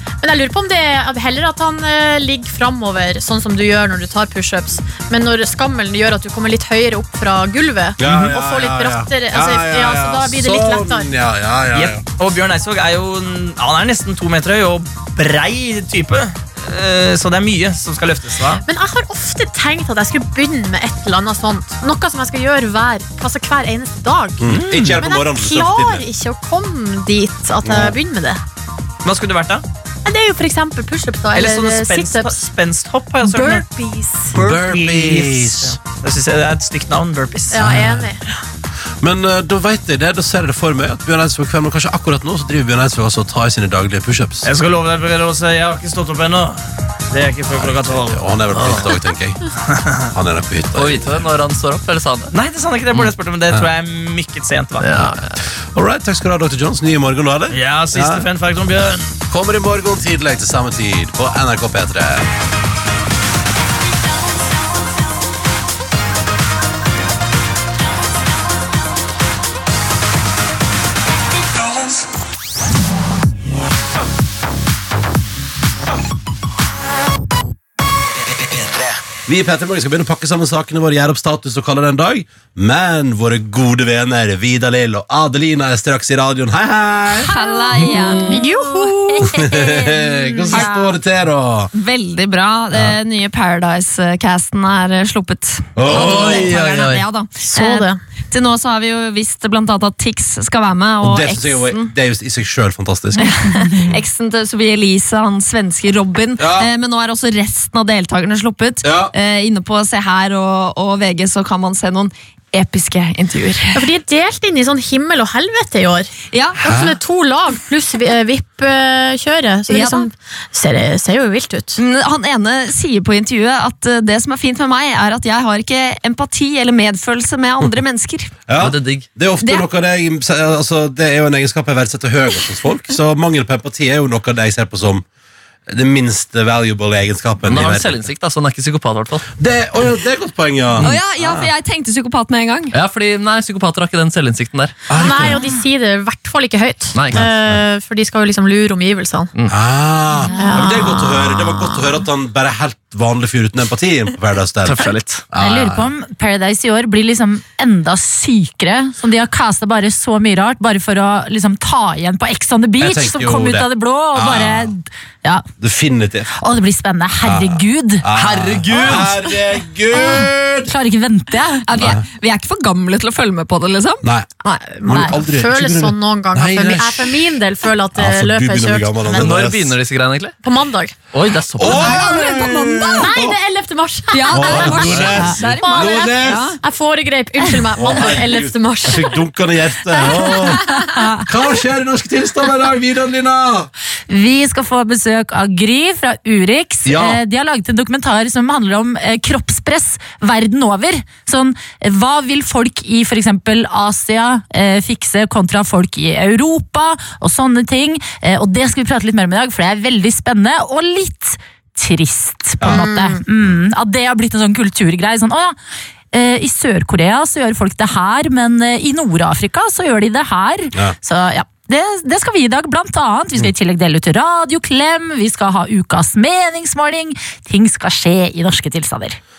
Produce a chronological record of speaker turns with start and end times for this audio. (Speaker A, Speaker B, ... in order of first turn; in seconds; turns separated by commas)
Speaker A: 0.2-11.1, Speaker B: 8.0-12.0, Speaker C: 8.0-8.3, Speaker C: 11.7-18.6, Speaker A: 18.7-28.4, Speaker B: 24.4-26.1, Speaker C: 24.4-24.9, Speaker B: 27.6-28.0, Speaker C: 29.0-29.6, Speaker A: 30.1-32.5, Speaker C: 31.4-33.6, Speaker A: 33.2-34.3, Speaker C: 34.3-37.7, Speaker B: 34.3-35.8, Speaker A: 37.5-38.2, Speaker B: 37.6-38.1, Speaker B: 39.0-44.5, Speaker C: 44.4-46.6, Speaker C: 47.1-48.2, Speaker B: 47.5-49.5, Speaker D: 48.5-48.9, Speaker B: 50.1-51.2, Speaker D: 50.8-52.3, Speaker C: 52.3-54.9, Speaker D: 54.8-55.4, Speaker B: 55.7-58.3, Speaker C: 57.5-59.0, Speaker B: 59.3-62.3, Speaker B: 79.3-87.3, Speaker E: 87.2-88.5, Speaker A: 88.3-90.6, Speaker B: 89.2-91.7, Speaker E: 90.5-91.0, Speaker E: 91.7-101.9, Speaker B: 95.8-96.6, Speaker D: 95.9-97.0, Speaker A: 97.4-98.0, Speaker B: 101.0-103.3, Speaker E: 103.2-113.9, Speaker B: 106.4-106.7, Speaker B: 108.8-109.1, Speaker A: 113.8-121.8, Speaker E: 116.3-116.6, Speaker B: 116.6-117.0, Speaker E: 119.7-120.1, Speaker E: 121.8-128.4, Speaker B: 128.5-135.1, Speaker D: 128.6-129.1, Speaker B: 135.7-138.0, Speaker D: 137.4-139.3, Speaker B: 139.4-141.5, Speaker E: 140.8-142.8, Speaker D: 142.7-144.8, Speaker B: 144.9-145.4, Speaker A: 144.9-149.3, Speaker D: 146.9-147.6, Speaker B: 149.5-155.9, Speaker A: 150.3-151.1, Speaker D: 154.7-155.2, Speaker F: 155.3-165.5, Speaker B: 162.8-164.7, Speaker B: 165.6-166.3, Speaker F: 166.4-169.2, Speaker B: 167.2-170.7, Speaker F: 169.9-171.7, Speaker E: 171.7-174.5, Speaker B: 171.8-172.1, Speaker B: 174.0-174.3, Speaker A: 174.6-179.4, Speaker B: 174.8-177.2, Speaker B: 177.9-179.8, Speaker D: 179.1-180.4, Speaker A: 180.4-180.9, Speaker D: 181.1-182.0, Speaker B: 181.6-183.4, Speaker E: 181.6-183.1, Speaker A: 183.0-189.2, Speaker E: 184.1-186.6, Speaker B: 184.3-186.5, Speaker B: 187.8-190.7, Speaker A: 189.9-190.7, Speaker E: 190.8-191.2, Speaker B: 191.2-193.7, Speaker F: 194.1-215.6, Speaker B: 196.8-197.2, Speaker B: 212.6-212.9, Speaker A: 212.7-213.2, Speaker F: 216.1-229.2